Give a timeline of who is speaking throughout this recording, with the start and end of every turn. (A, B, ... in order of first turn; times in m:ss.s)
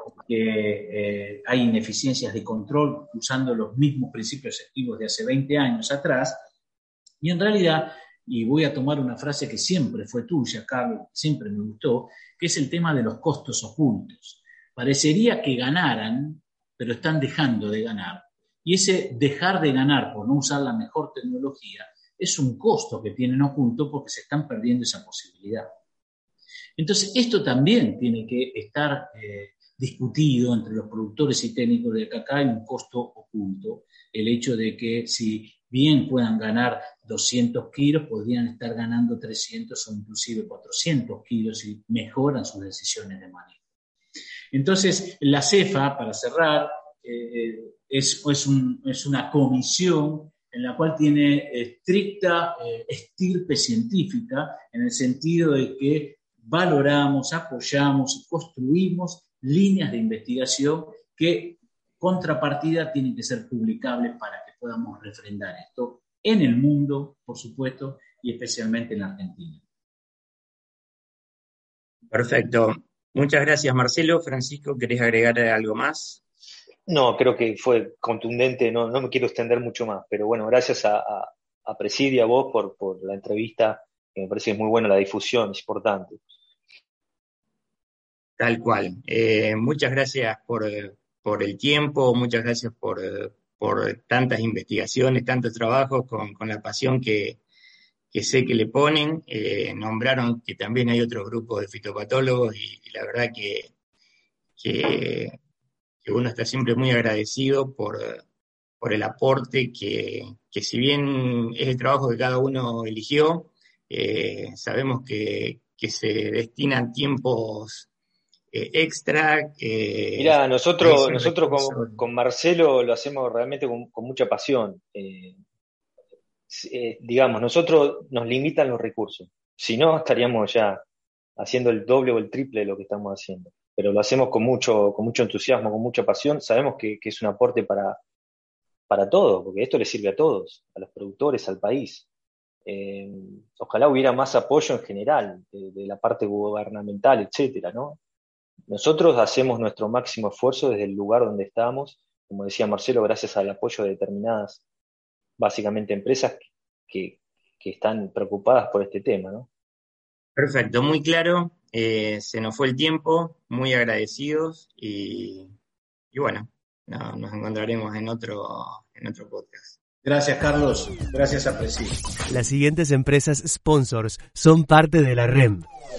0:00.2-0:06.4 A
0:07.2-0:25.7 A
0:26.8-0:43.6 A
0:44.5-1:09.6 A
1:12.1-1:16.2 B
1:16.9-1:26.2 C
1:28.4-1:37.4 B
1:38.1-1:43.7 B
1:44.6-1:45.4 B
1:46.0-1:48.2 B
1:48.8-1:57.9 B
1:58.5-2:02.0 B
2:00.2-2:05.4 C
2:06.5-2:10.8 C
2:11.4-2:18.0 C
2:18.9-2:22.0 C
2:22.6-2:28.0 C
2:28.7-2:34.6 C
2:35.4-2:39.5 C
2:40.4-2:45.5 B
2:46.1-2:49.8 B
2:50.0-2:52.0 A
2:52.3-2:55.7 D